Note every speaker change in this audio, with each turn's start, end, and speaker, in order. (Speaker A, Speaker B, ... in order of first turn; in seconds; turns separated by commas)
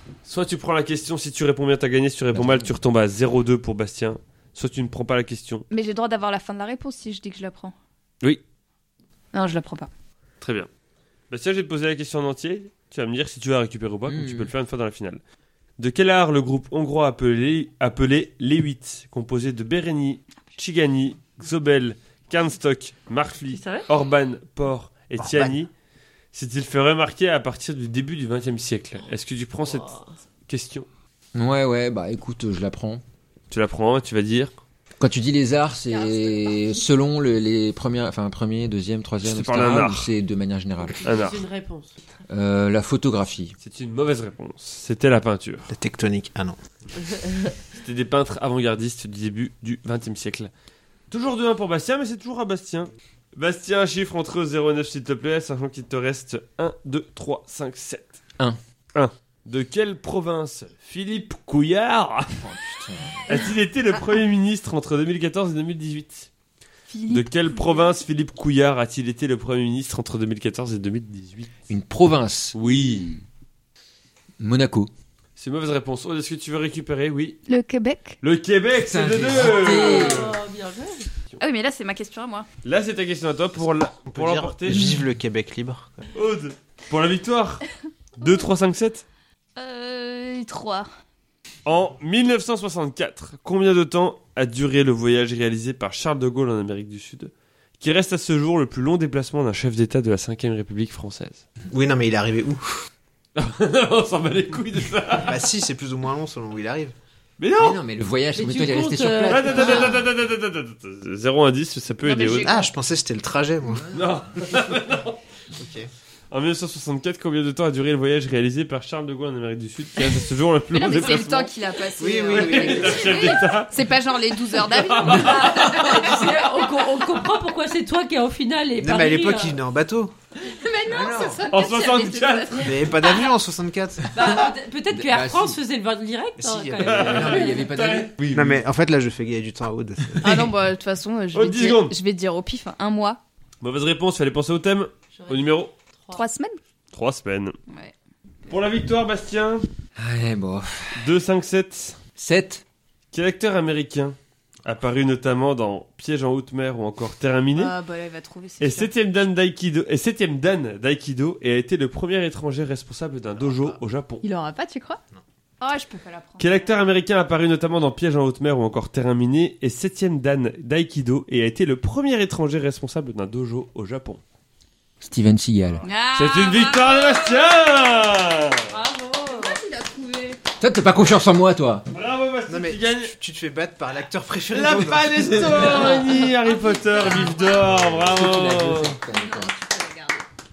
Speaker A: 0.2-5.7, Speaker B: 2.3-2.8, Speaker C: 5.7-7.7, Speaker C: 9.3-9.9, Speaker A: 10.4-10.7, Speaker A: 11.3-15.2, Speaker B: 14.1-14.5, Speaker A: 15.8-25.7, Speaker D: 23.5-23.9, Speaker E: 25.2-25.5, Speaker A: 26.3-29.9, Speaker D: 29.7-30.1, Speaker A: 30.5-30.9, Speaker B: 31.3-33.0, Speaker A: 33.5-34.5, Speaker B: 35.0-41.0, Speaker C: 35.9-36.8, Speaker A: 39.2-40.1, Speaker D: 41.0-42.0, Speaker A: 41.0-41.4, Speaker B: 42.3-43.5, Speaker A: 43.6-45.7, Speaker E: 45.7-46.6, Speaker D: 47.1-47.5, Speaker A: 47.7-50.5, Speaker A: 51.1-58.2, Speaker A: 58.9-62.4, Speaker B: 62.3-63.4, Speaker A: 63.3-66.3, Speaker C: 66.9-67.8, Speaker A: 67.1-71.6, Speaker B: 71.7-72.5, Speaker A: 72.5-73.2, Speaker B: 74.4-74.9, Speaker A: 75.3-77.4, Speaker C: 77.5-78.2, Speaker A: 78.2-80.4, Speaker B: 78.7-80.3, Speaker D: 79.5-81.1, Speaker C: 81.4-82.5, Speaker A: 82.6-84.9, Speaker E: 84.0-86.0, Speaker A: 86.1-87.6, Speaker A: 88.2-89.0, Speaker C: 88.2-88.5, Speaker C: 89.5-90.9, Speaker A: 91.7-101.4, Speaker E: 101.7-102.8, Speaker A: 103.3-105.4, Speaker E: 105.2-106.9, Speaker A: 107.4-107.8, Speaker B: 107.5-110.0, Speaker D: 108.3-110.0, Speaker A: 109.3-112.6, Speaker C: 112.0-112.7, Speaker E: 112.3-114.0, Speaker A: 113.9-115.2, Speaker E: 115.5-115.9, Speaker A: 116.3-121.5, Speaker C: 120.7-126.5, Speaker E: 122.0-123.4, Speaker A: 122.3-123.7, Speaker A: 124.7-126.0, Speaker D: 125.5-129.6, Speaker E: 128.8-130.1, Speaker C: 130.5-133.3, Speaker B: 130.8-131.4, Speaker A: 131.5-132.8, Speaker E: 132.6-134.3, Speaker D: 134.1-137.2, Speaker B: 134.9-135.6, Speaker E: 136.4-137.4, Speaker A: 136.8-138.6, Speaker B: 136.9-138.2, Speaker E: 138.3-140.4, Speaker C: 140.2-143.2, Speaker A: 141.3-141.9, Speaker A: 143.6-145.7, Speaker D: 145.2-146.2, Speaker C: 146.1-146.6, Speaker A: 146.9-147.6, Speaker A: 148.5-149.6, Speaker B: 149.9-151.1, Speaker A: 150.9-152.0, Speaker B: 152.2-152.6, Speaker A: 153.1-157.7, Speaker C: 157.5-158.9, Speaker A: 158.6-164.2, Speaker C: 164.2-165.0, Speaker C: 165.6-166.7, Speaker A: 166.4-174.2, Speaker B: 175.0-175.8, Speaker C: 175.8-177.4, Speaker A: 176.1-178.7, Speaker D: 178.7-179.6, Speaker C: 179.2-180.4, Speaker B: 180.6-181.8, Speaker A: 181.9-183.1, Speaker E: 182.5-186.1, Speaker A: 184.5-189.0, Speaker C: 186.2-187.8, Speaker B: 187.5-189.5, Speaker C: 189.1-190.2